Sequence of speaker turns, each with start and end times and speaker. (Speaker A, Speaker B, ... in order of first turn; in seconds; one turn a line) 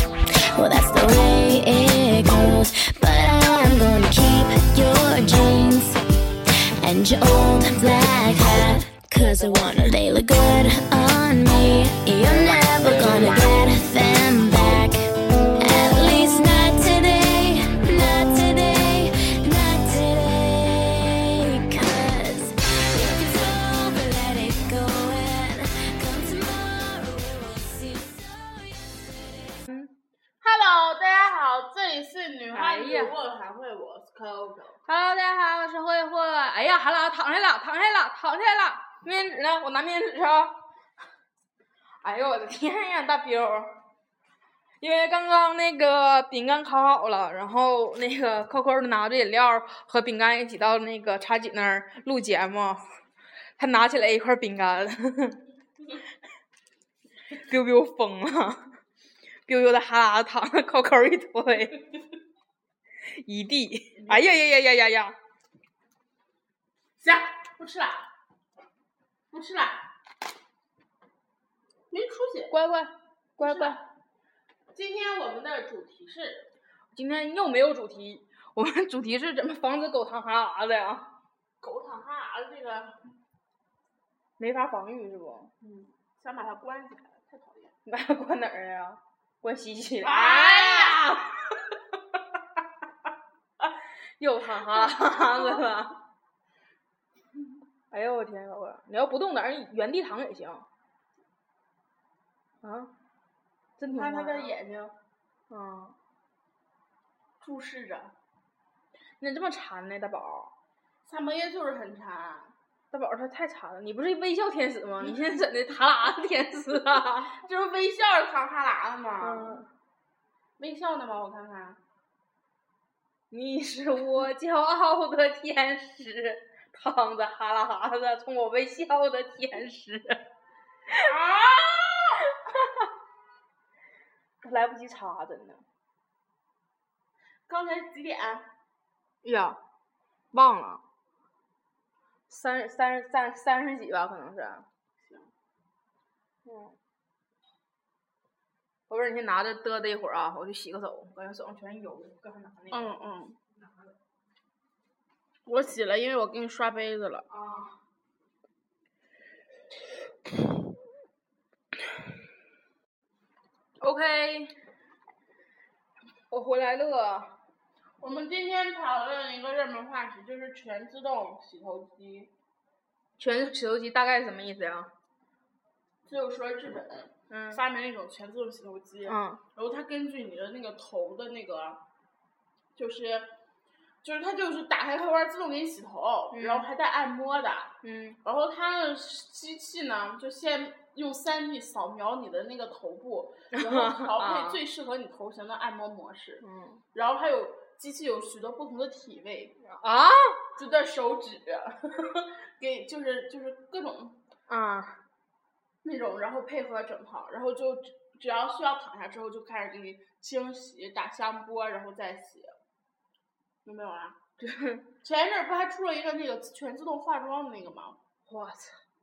Speaker A: 0.5-6.0
Speaker A: 6.8-15.0
Speaker A: 15.6-29.5
Speaker B: 30.4-34.8
Speaker C: 32.5-33.1
Speaker C: 34.9-40.6
Speaker C: 42.0-43.8
Speaker C: 44.8-52.8
Speaker C: 53.6-55.4
Speaker C: 57.4-58.8
Speaker C: 59.5-61.9
Speaker C: 63.1-65.2
Speaker B: 67.0-68.1
Speaker B: 69.3-69.8
Speaker B: 71.9-72.5
Speaker C: 72.5-73.8
Speaker B: 73.4-73.8
Speaker B: 74.7-76.5
Speaker C: 76.9-81.0
Speaker B: 81.6-83.0
Speaker C: 84.4-85.5
Speaker B: 85.6-87.7
Speaker C: 87.8-91.4
Speaker B: 90.0-91.2
Speaker C: 94.2-96.0
Speaker B: 94.7-95.6
Speaker C: 97.9-100.7
Speaker C: 102.6-102.9
Speaker C: 103.8-104.5
Speaker B: 103.9-104.9
Speaker C: 105.5-106.0
Speaker B: 107.4-108.1
Speaker C: 109.2-110.5
Speaker B: 111.0-112.5
Speaker C: 112.9-117.4
Speaker B: 117.3-119.6
Speaker C: 119.2-119.7
Speaker B: 120.6-121.8
Speaker C: 123.3-130.2
Speaker B: 131.0-132.2
Speaker C: 134.4-135.6
Speaker B: 137.5-138.5
Speaker C: 139.2-139.6
Speaker C: 140.3-140.8
Speaker C: 142.3-144.7
Speaker B: 145.0-145.3
Speaker C: 146.4-146.8
Speaker C: 148.9-152.9
Speaker B: 152.7-153.4
Speaker B: 155.4-157.3
Speaker C: 157.3-157.8
Speaker C: 163.8-164.6
Speaker C: 166.3-167.3
Speaker B: 168.0-172.3
Speaker C: 173.2-174.9
Speaker B: 176.1-181.8
Speaker C: 177.3-177.6
Speaker C: 179.1-179.4
Speaker B: 182.7-183.3
Speaker B: 184.0-187.7
Speaker C: 186.3-186.7
Speaker C: 187.8-188.2
Speaker B: 188.2-199.6
Speaker C: 193.5-194.6
Speaker C: 196.4-196.8
Speaker C: 199.7-200.4
Speaker B: 200.6-204.2
Speaker C: 204.5-205.0
Speaker B: 205.8-212.5
Speaker B: 213.6-214.2
Speaker C: 214.4-214.9
Speaker B: 215.0-218.0
Speaker C: 218.2-218.8